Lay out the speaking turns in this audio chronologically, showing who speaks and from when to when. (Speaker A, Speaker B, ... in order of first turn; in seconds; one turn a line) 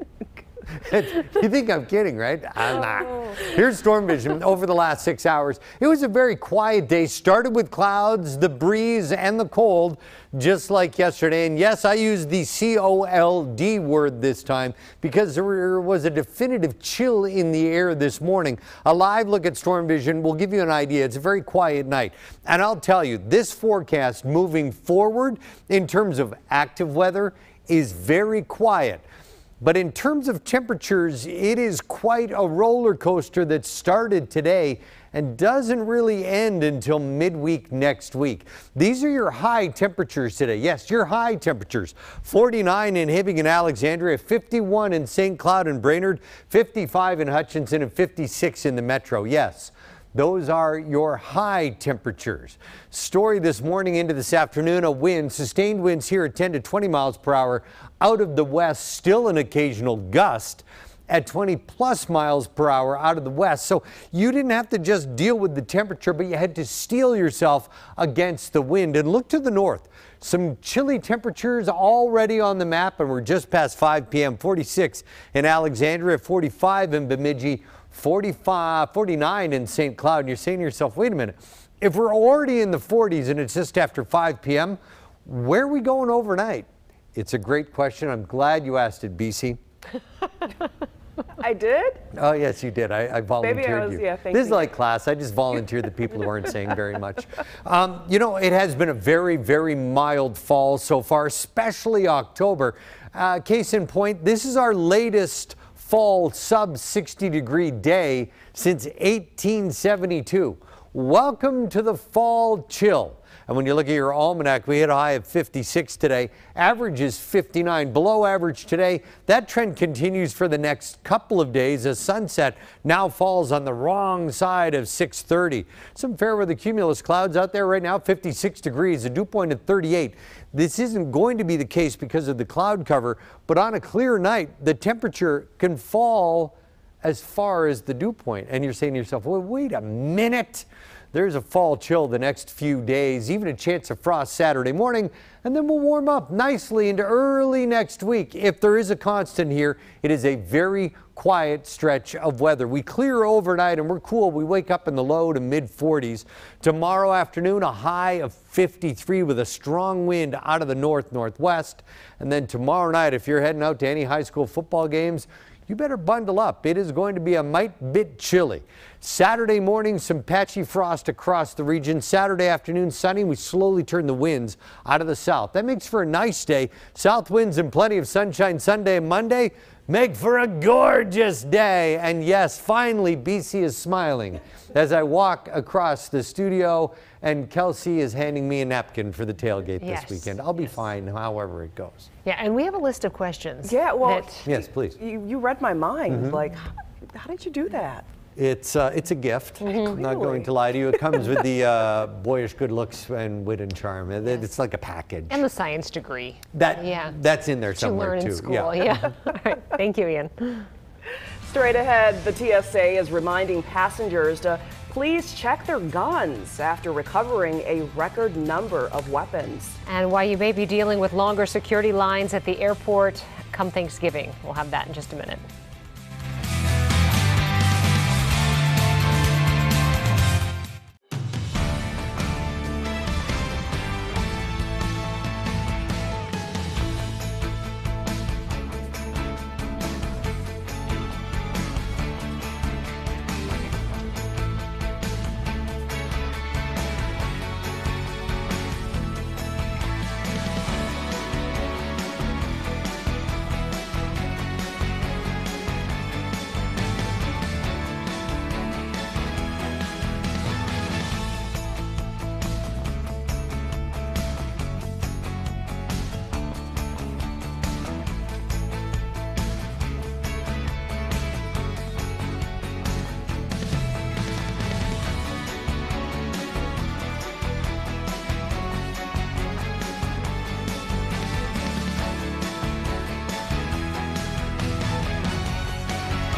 Speaker A: 0.8-29.0
Speaker A: 29.6-89.6
Speaker B: 91.4-92.0
Speaker A: 92.1-192.1
Speaker B: 93.4-94.7
Speaker C: 189.8-190.3
Speaker C: 192.2-194.4
Speaker B: 193.6-198.1
Speaker A: 194.4-195.0
Speaker A: 196.1-196.4
Speaker A: 198.3-205.4
Speaker C: 199.6-200.0
Speaker B: 199.8-200.5
Speaker C: 205.3-207.2
Speaker A: 206.5-209.0
Speaker C: 207.8-210.7
Speaker B: 211.5-219.8
Speaker C: 219.8-225.4